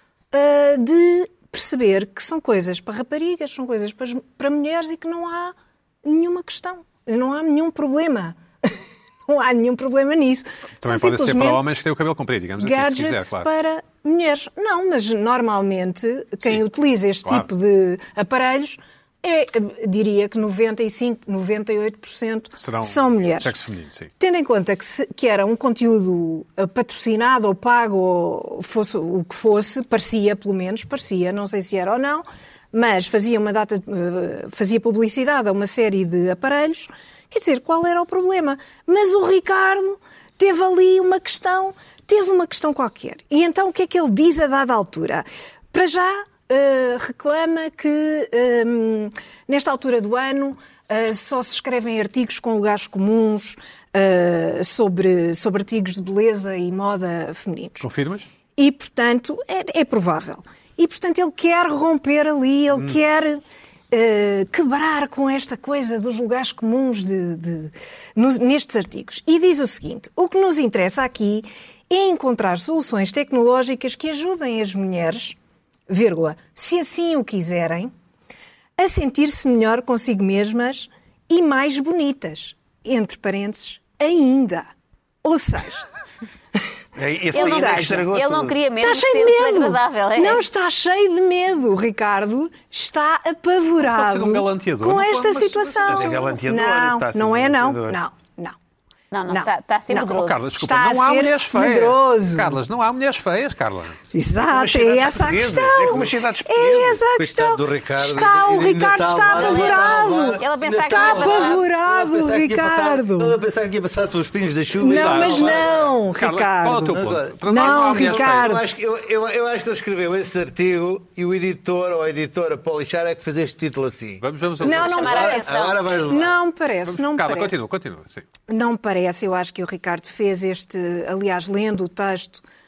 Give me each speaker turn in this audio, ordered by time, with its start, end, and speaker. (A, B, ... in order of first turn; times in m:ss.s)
0:00.3-0:11.7 A
0:10.8-0:13.5 B
0:12.6-0:23.6 A
0:22.6-0:24.1 B
0:24.2-0:57.8 A
0:57.8-0:58.3 B
0:58.6-1:15.4 A
1:15.9-1:17.9 A
1:18.8-1:24.7 A
1:25.2-1:25.9 A
1:27.0-1:28.6 C
1:27.3-1:28.1 A
1:27.3-1:30.4 D
1:28.8-1:38.6 A
1:33.8-1:36.3 B
1:35.9-1:38.0 C
1:39.1-1:40.4 D
1:39.3-1:42.6 A
1:40.0-1:44.0 B
1:44.1-1:53.4 A
1:44.5-1:47.0 C
1:47.2-1:55.9 E
1:49.3-1:49.8 D
1:50.4-1:51.6 D
1:54.8-1:58.7 A
1:54.9-1:55.6 B
1:56.2-1:58.6 B
1:56.9-2:06.4 E
2:04.2-2:05.3 B
2:04.6-2:05.4 A
2:04.8-2:05.8 D
2:06.1-2:07.6 A
2:06.9-2:08.2 B
2:08.5-2:12.4 A